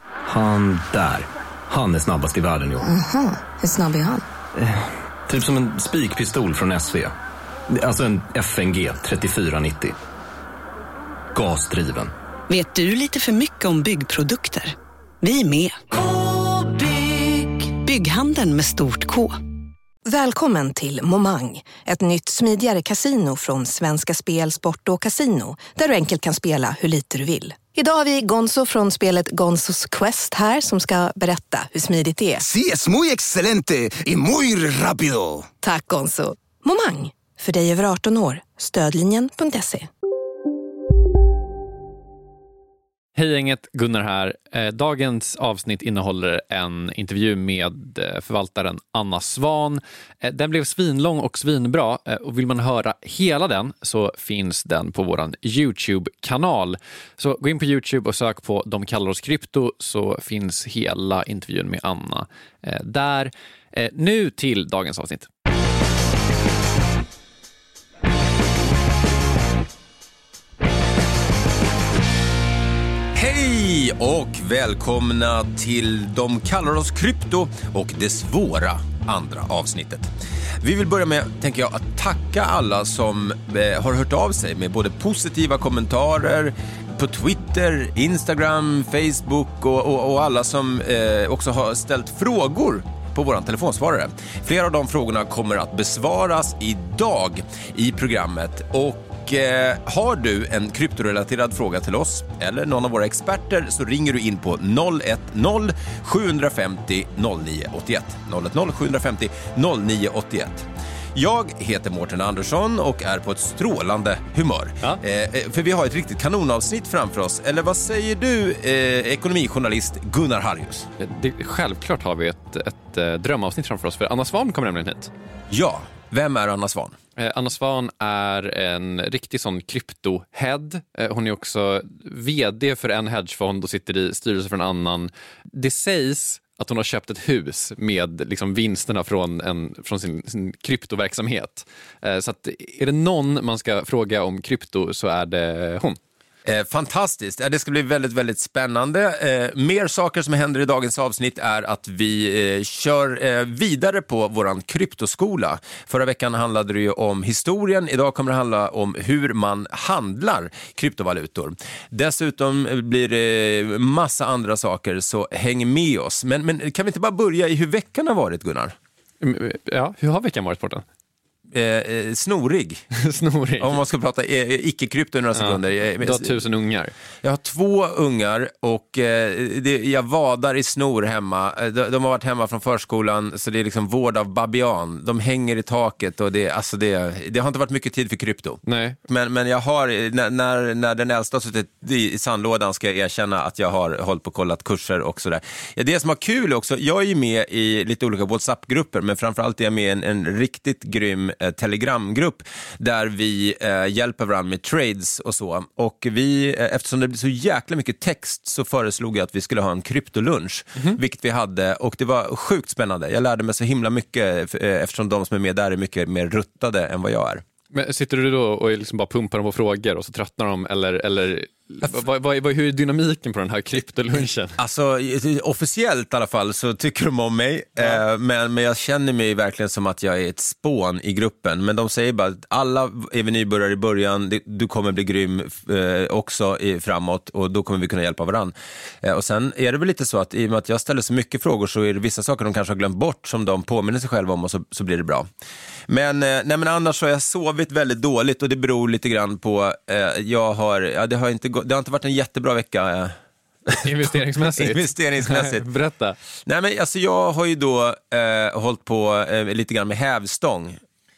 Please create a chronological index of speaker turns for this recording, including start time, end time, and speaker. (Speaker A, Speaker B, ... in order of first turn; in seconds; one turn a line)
Speaker A: 0.2-2.9
Speaker B: 2.8-4.2
Speaker A: 4.6-7.1
Speaker A: 7.7-9.9
Speaker A: 11.3-12.1
Speaker C: 12.5-14.6
Speaker B: 13.8-14.6
Speaker C: 15.2-19.3
Speaker B: 20.1-32.4
Speaker D: 32.4-35.5
Speaker B: 35.6-39.9
Speaker E: 43.1-65.3
Speaker F: 73.1-80.1
Speaker F: 80.6-120.9
Speaker E: 121.0-125.1
Speaker F: 125.5-127.0
Speaker E: 127.2-146.0
Speaker F: 146.4-168.7
Speaker E: 169.2-170.8
Speaker F: 171.5-172.8
Speaker E: 173.0-173.8
Speaker F: 173.6-176.4
Speaker E: 175.3-176.9
Speaker F: 177.2-217.4
Speaker E: 188.7-189.0
Speaker E: 217.7-224.6
Speaker F: 224.6-245.3
Speaker F: 245.9-253.1
Speaker F: 253.7-255.6
Speaker E: 253.7-256.2
Speaker F: 256.4-260.8